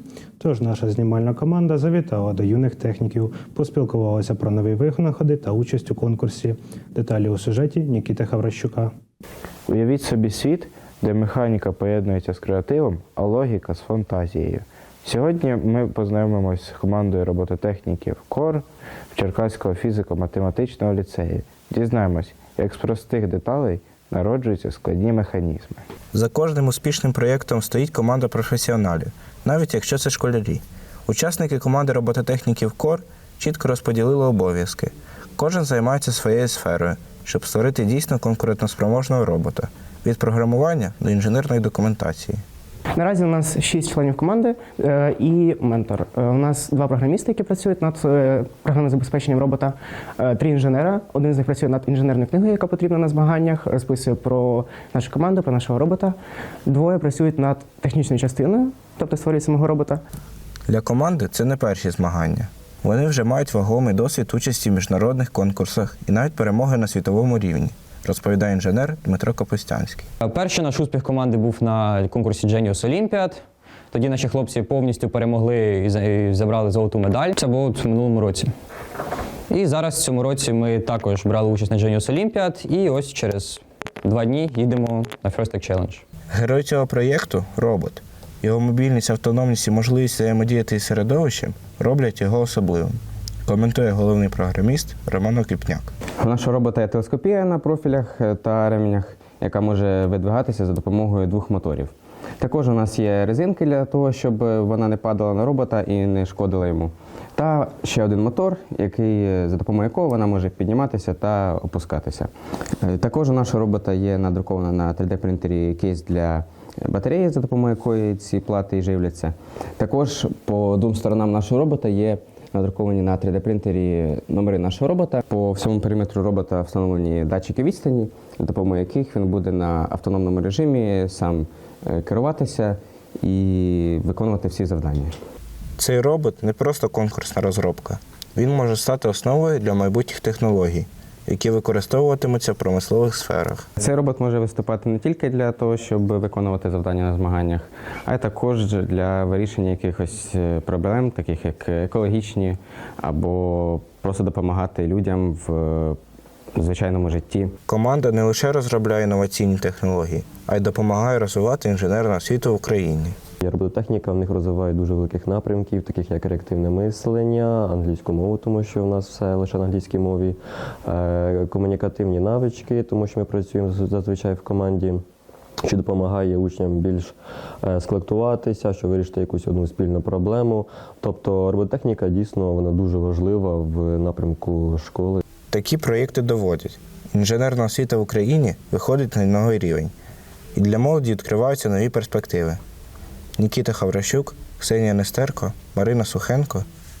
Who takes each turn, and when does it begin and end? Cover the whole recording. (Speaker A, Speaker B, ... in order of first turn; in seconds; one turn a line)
Speaker A: 0.4-8.9
Speaker B: 9.7-18.6
Speaker B: 19.1-25.8
Speaker C: 26.1-42.4
Speaker D: 43.0-60.0
Speaker C: 60.7-70.1
Speaker E: 70.2-78.5
Speaker E: 79.5-86.0
Speaker C: 86.3-95.9
Speaker F: 96.2-112.3
Speaker F: 112.8-135.1
Speaker C: 135.8-143.7
Speaker F: 143.8-156.0
Speaker F: 156.6-157.5
Speaker C: 157.7-163.2
Speaker G: 163.4-175.0
Speaker G: 175.6-185.2
Speaker C: 185.5-189.9
Speaker C: 190.5-192.6
Speaker C: 193.4-196.6